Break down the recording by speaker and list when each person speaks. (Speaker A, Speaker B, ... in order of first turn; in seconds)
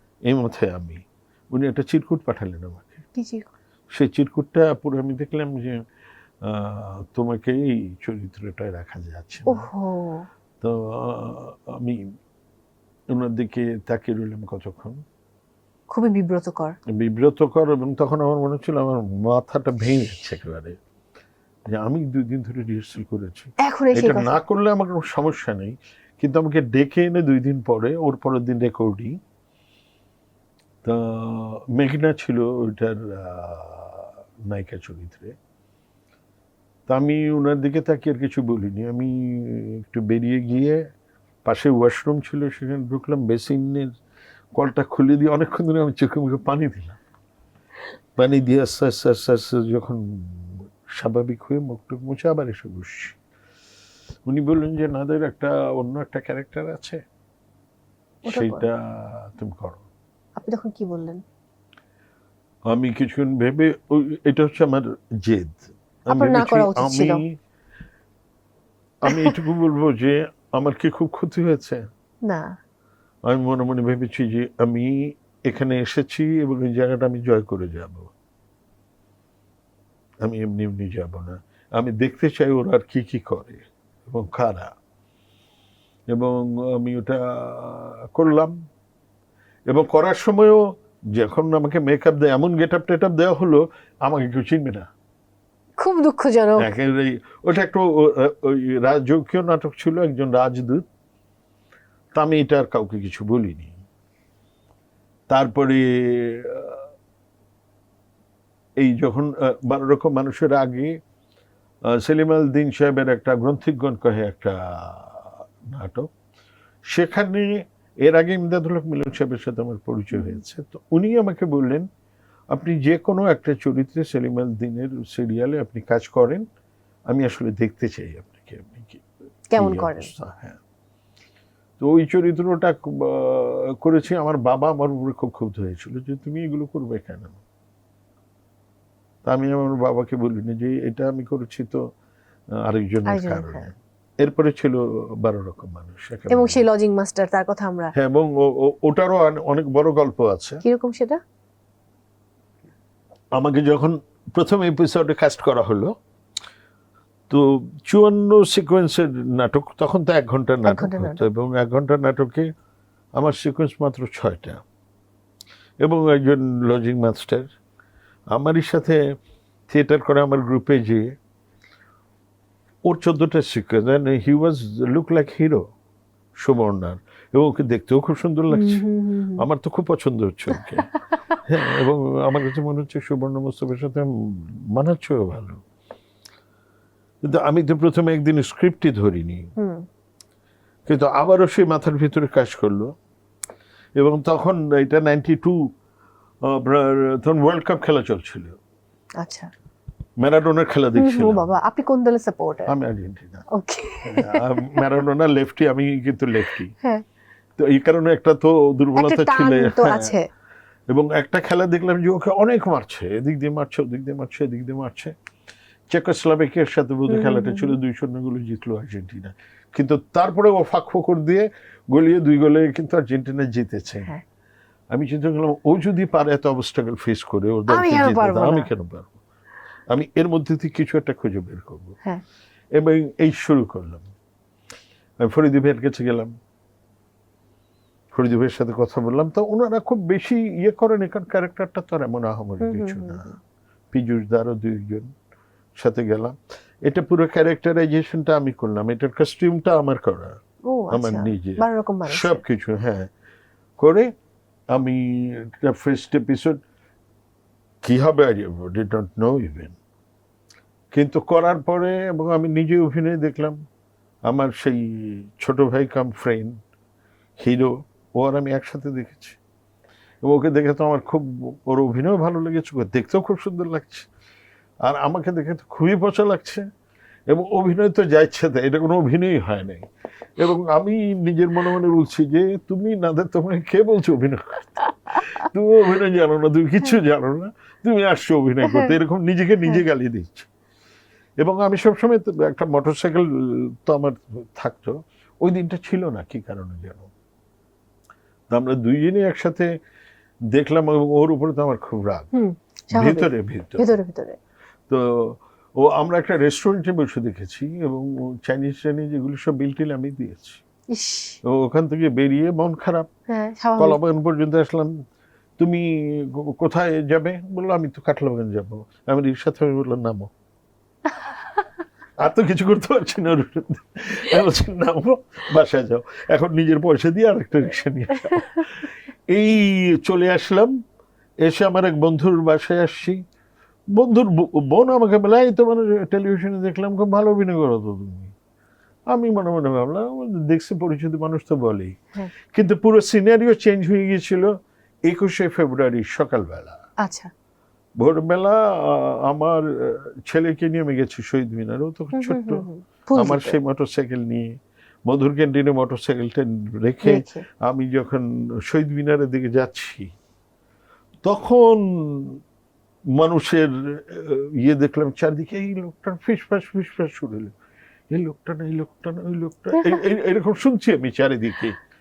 Speaker A: 0.3-3.0, 3.9-5.8, 6.4-9.7, 10.6-12.1, 13.1-15.0, 16.9-20.8, 21.7-29.2, 30.9-35.4, 36.9-40.8, 41.5-43.9, 44.5-47.0, 48.2-53.2, 54.3-57.0, 58.2-59.8, 62.7-67.3, 69.1-71.9, 73.3-78.1, 80.2-84.7, 86.1-88.5, 89.7-94.9, 96.6-100.9, 102.2-103.8, 105.3-106.8, 108.8-110.9, 111.9-116.1, 116.9-121.9, 122.5-126.4, 127.1-129.1, 129.6-130.6, 131.8-137.4, 139.2-141.8, 142.6-146.6, 147.9-150.6, 153.3-155.9, 157.3-162.5, 163.2-164.6, 165.8-167.5, 168.3-169.0, 169.7-171.1, 172.9-175.7, 176.4-178.8, 179.4-180.9, 181.4-185.6, 187.2-189.5, 190.9-192.9, 194.0-195.7, 196.4-198.6, 200.2-201.6, 202.7-203.5, 204.0-206.7, 207.6-210.2, 210.9-215.1, 215.9-224.1, 224.9-229.2, 229.9-231.9, 232.8-234.1, 235.2-236.3, 238.1-243.4, 243.9-245.1, 245.8-250.4, 250.9-253.1, 253.8-254.1, 254.7-256.6, 257.8-259.8, 260.9-263.6, 264.3-266.6, 267.4-269.4, 270.2-274.1, 274.8-276.7, 277.3-290.5, 291.4-297.1, 298.5-299.7, 300.5-302.3, 302.9-303.9, 304.9-310.6, 311.4-313.1, 313.8-315.0, 315.6-320.3, 322.2-330.7, 331.4-333.2, 333.9-338.3, 339.1-342.0, 342.5-344.5, 345.1-346.8, 348.0-354.5, 355.1-360.1, 361.2-362.4, 363.2-367.5, 368.1-371.8
Speaker B: 3.1-3.5, 9.5-10.3, 15.9-16.8, 23.6-24.3, 58.3-58.6, 60.4-61.2, 66.1-67.2, 69.0-69.4, 72.2-72.5, 95.8-96.7, 129.5-130.1, 143.1-143.7, 146.3-147.9, 150.6-151.2, 160.7-161.2, 178.5-179.4, 180.6-181.4, 189.6-189.8, 199.2-199.5, 201.0-202.7, 203.5-204.6, 209.0-210.3, 217.1-217.8, 227.7-228.7, 242.6-243.3, 250.7-252.4, 302.3-304.4, 310.9-311.4, 313.3-314.0, 347.0-347.3, 352.2-353.6, 357.1-357.4